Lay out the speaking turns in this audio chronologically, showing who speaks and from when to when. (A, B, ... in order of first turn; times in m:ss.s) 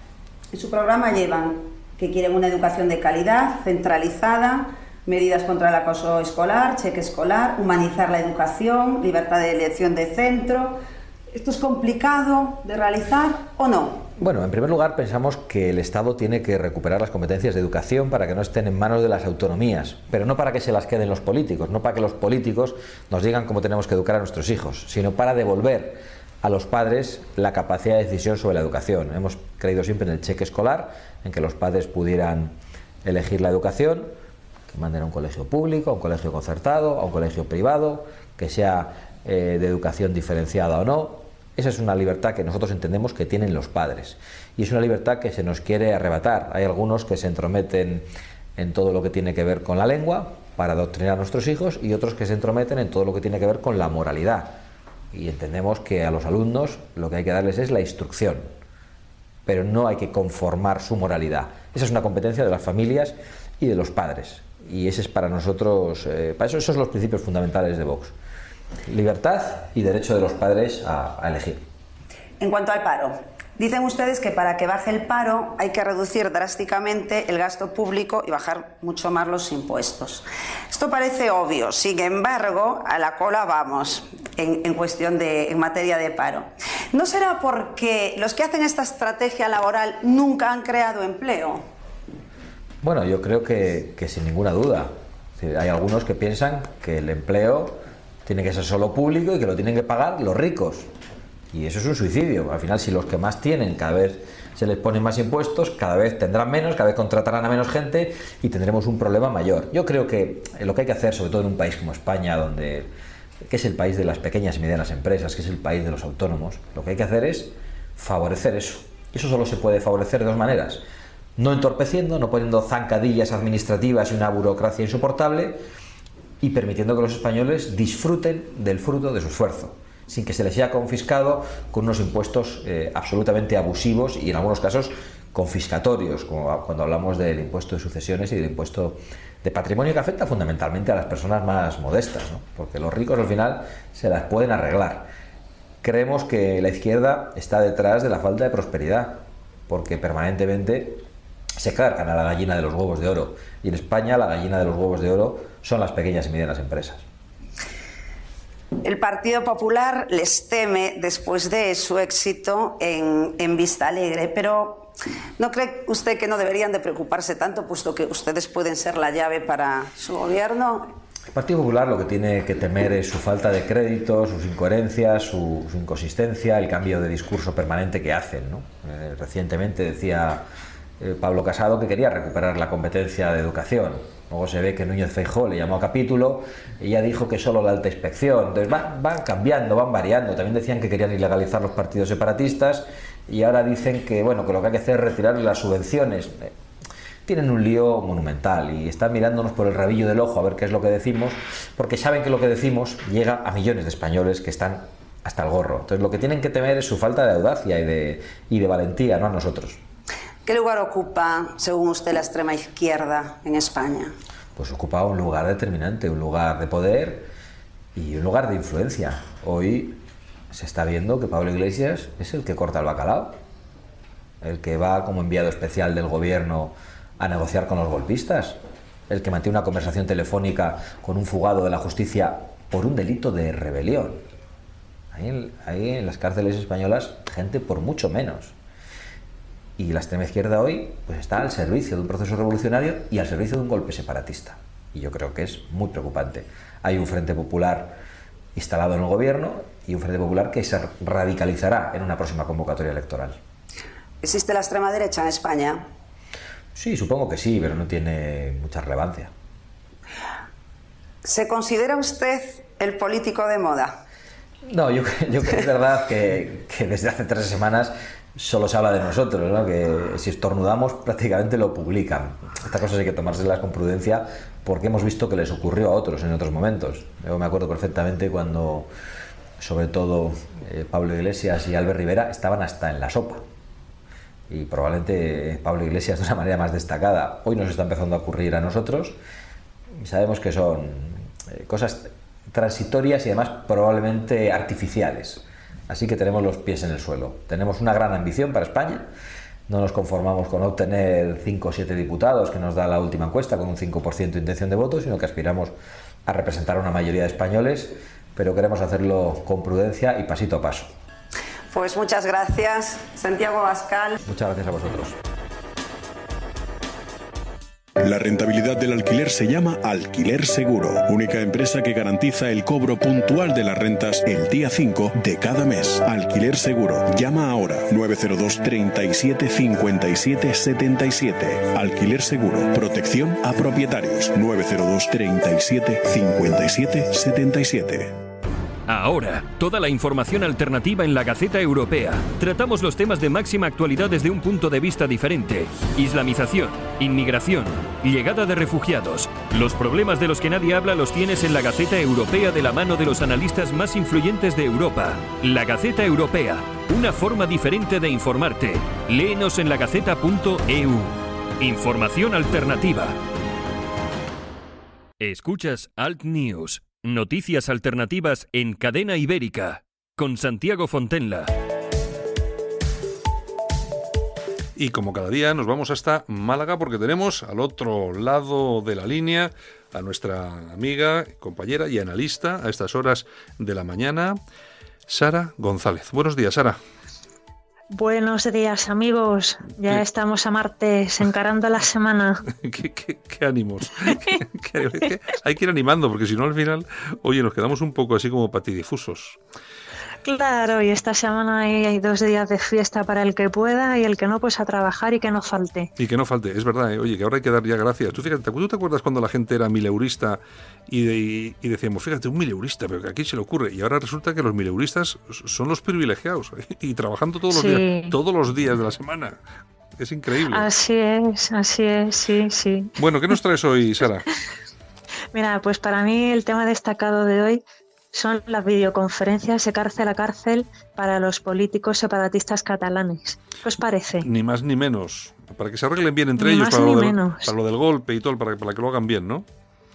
0:00.5-0:10.8 A
0:11.3-0:14.1 A
0:14.2-0:34.1 B
0:34.7-0:48.0 B
0:48.6-0:54.6 B
0:55.1-0:58.5 B
0:59.4-1:08.1 B
1:08.9-1:11.6 B
1:12.4-1:31.6 A
1:32.8-1:40.9 B
1:41.5-1:52.9 B
1:53.5-2:00.8 B
2:01.4-2:05.6 B
2:06.4-2:25.1 B
2:25.8-2:31.0 B
2:31.6-2:37.0 B
2:38.8-2:50.9 A
2:51.3-3:00.4 B
3:01.0-3:16.5 B
3:17.2-3:29.8 B
3:30.4-3:34.1 A
3:34.6-3:37.3 B
3:37.9-3:40.0 B
3:40.5-3:43.4 B
3:44.4-3:54.2 B
3:55.1-3:58.5 B
3:59.8-4:08.0 B
4:08.5-4:13.4 B
4:14.2-4:15.9 A
4:16.7-4:19.3 B
4:21.2-4:24.0 A
4:24.7-4:38.9 B
4:39.6-4:43.4 B
4:44.5-4:49.2 B
4:50.0-4:59.1 B
4:59.7-5:05.7 B
5:06.2-5:10.9 B
5:11.7-5:14.2 A
5:14.2-5:15.2 B
5:18.0-5:38.1 C
5:38.9-6:03.2 D
6:05.2-6:11.5 D
6:14.8-6:24.4 E
6:25.1-6:26.8 E
6:27.9-6:32.4 F
6:32.5-6:39.4 E
6:34.0-6:34.4 F
6:40.2-6:45.9 F
6:46.0-6:59.4 E
6:57.5-6:58.2 F
7:00.0-7:00.6 E
7:00.5-7:02.9 F
7:03.0-7:04.3 E
7:05.3-7:07.6 F
7:08.1-7:14.3 F
7:14.2-7:19.4 E
7:16.4-7:17.5 F